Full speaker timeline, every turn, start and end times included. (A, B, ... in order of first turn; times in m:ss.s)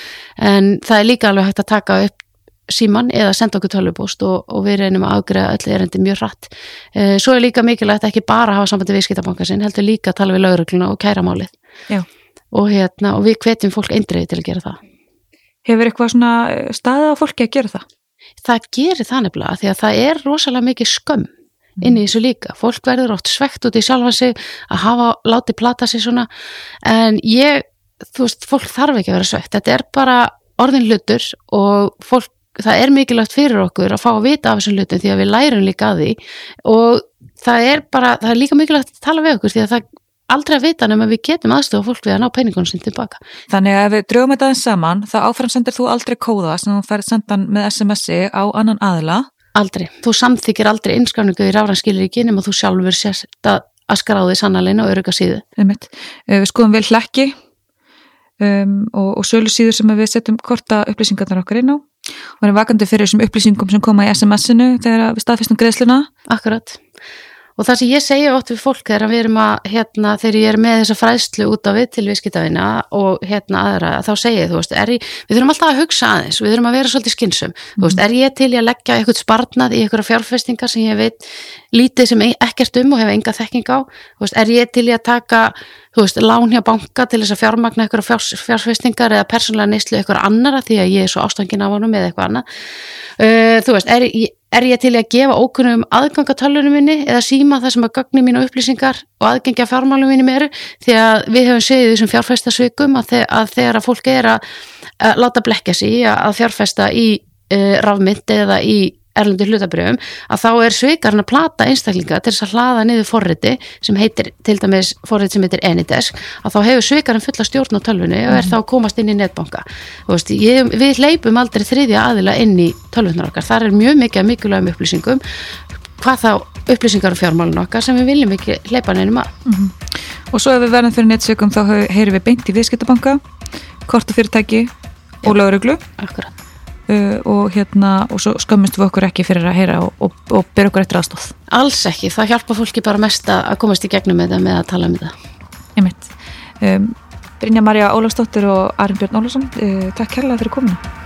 0:00.4-0:11.5 A
0:12.5-0:14.8 A
0:15.6-0:17.8 B
0:18.4-0:21.3 A
0:21.8-0:26.3 A
0:26.8-0:43.2 A
0:43.5-0:49.3 B
0:49.6-0:55.4 A
0:55.6-0:57.3 B
0:58.4-1:01.9 B
1:02.4-1:06.1 B
1:06.3-1:06.8 A
1:07.6-1:32.4 A
1:33.2-1:44.4 A
1:45.0-2:05.2 A
1:58.3-1:58.6 B
2:06.0-2:09.3 A
2:09.4-2:13.2 B
2:13.9-2:14.7 B
2:15.2-2:15.8 B
2:16.0-2:16.3 A
2:16.9-2:21.3 B
2:21.5-2:25.1 A
2:25.8-2:30.8 B